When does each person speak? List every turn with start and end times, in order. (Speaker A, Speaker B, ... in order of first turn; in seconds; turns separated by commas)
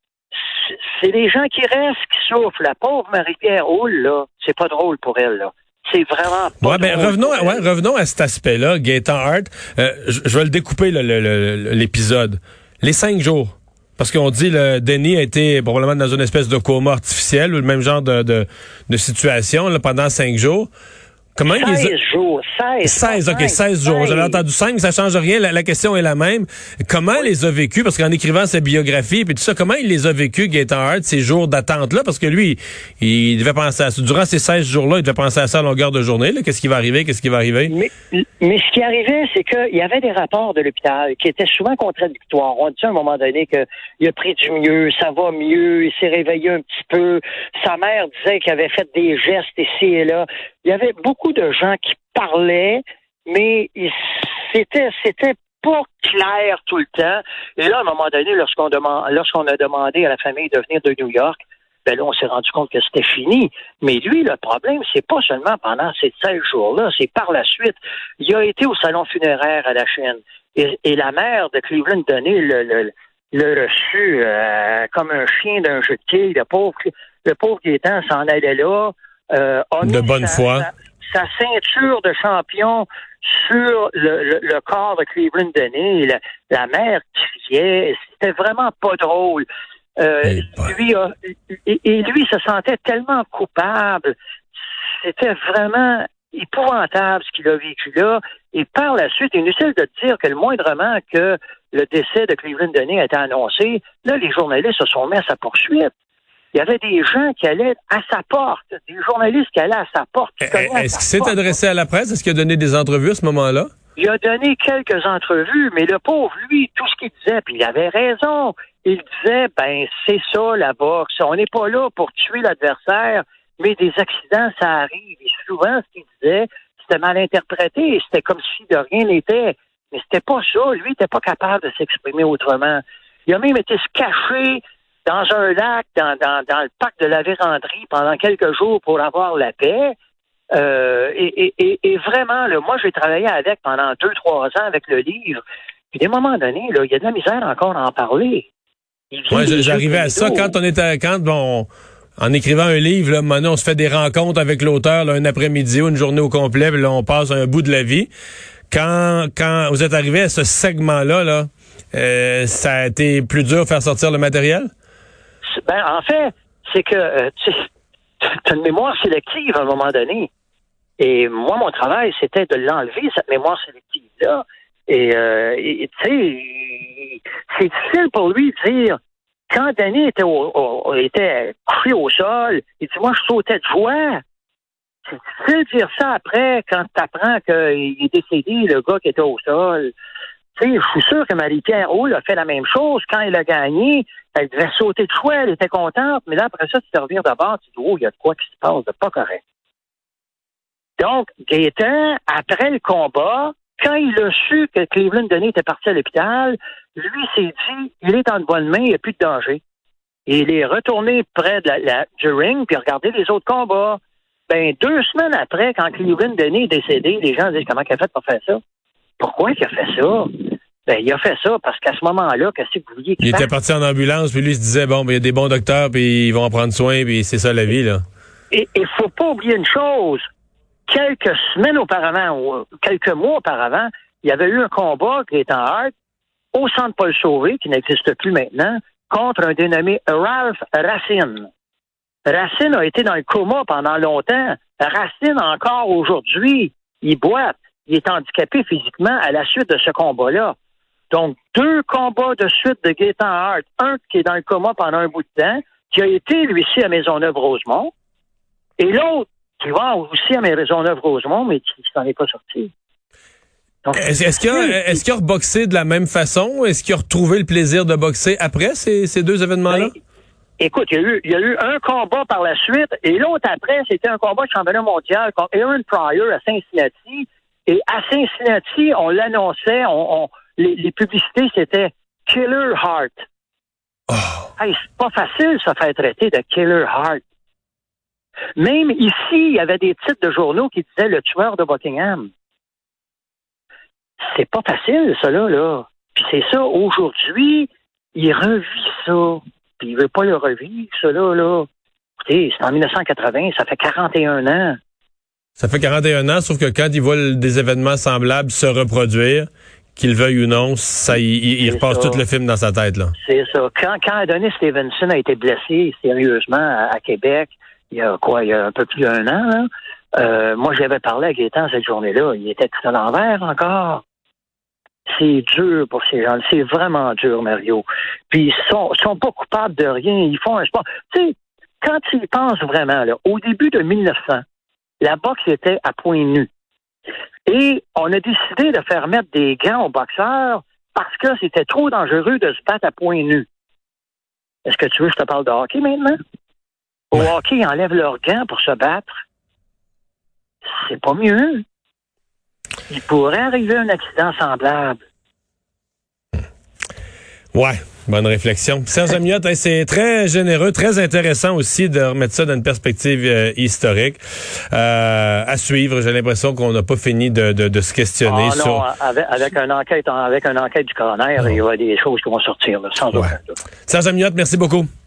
Speaker A: 0.3-7.7, Speaker B: 6.6-20.7, Speaker B: 21.4-21.9, Speaker A: 21.4-24.4, Speaker B: 22.8-37.7, Speaker A: 37.7-89.5, Speaker B: 79.8-80.7, Speaker A: 90.0-94.1, Speaker B: 90.2-90.6, Speaker A: 95.0-105.9, Speaker A: 106.5-111.6, Speaker B: 110.4-113.7, Speaker A: 114.0-139.9, Speaker A: 140.5-145.4, Speaker A: 145.9-148.5, Speaker A: 149.1-150.5, Speaker B: 149.3-158.1, Speaker B: 158.7-164.7, Speaker A: 165.6-167.7, Speaker A: 168.2-170.3, Speaker A: 171.0-179.0, Speaker A: 179.5-184.2, Speaker A: 185.1-189.9, Speaker A: 190.6-199.4, Speaker A: 201.0-209.6, Speaker A: 210.3-218.6, Speaker A: 219.2-223.5, Speaker B: 223.2-228.0, Speaker A: 228.5-230.2, Speaker A: 230.9-235.9, Speaker A: 236.5-241.5, Speaker A: 242.2-250.5, Speaker A: 251.1-257.9, Speaker A: 258.8-262.7, Speaker A: 263.8-265.0, Speaker B: 263.9-269.9, Speaker A: 269.7-269.9, Speaker A: 270.6-283.2, Speaker B: 284.1-284.4, Speaker A: 284.6-287.2, Speaker A: 288.6-292.3, Speaker A: 294.3-301.7, Speaker A: 302.2-304.8, Speaker B: 305.6-313.1, Speaker A: 311.6-312.2, Speaker A: 313.2-324.0, Speaker A: 325.1-334.4, Speaker A: 335.0-336.5, Speaker A: 337.4-343.4, Speaker A: 344.6-346.1, Speaker A: 347.1-349.2, Speaker A: 350.7-351.6, Speaker A: 352.9-355.0, Speaker B: 357.5-364.2, Speaker B: 364.7-368.8, Speaker A: 368.2-373.6, Speaker B: 373.1-374.9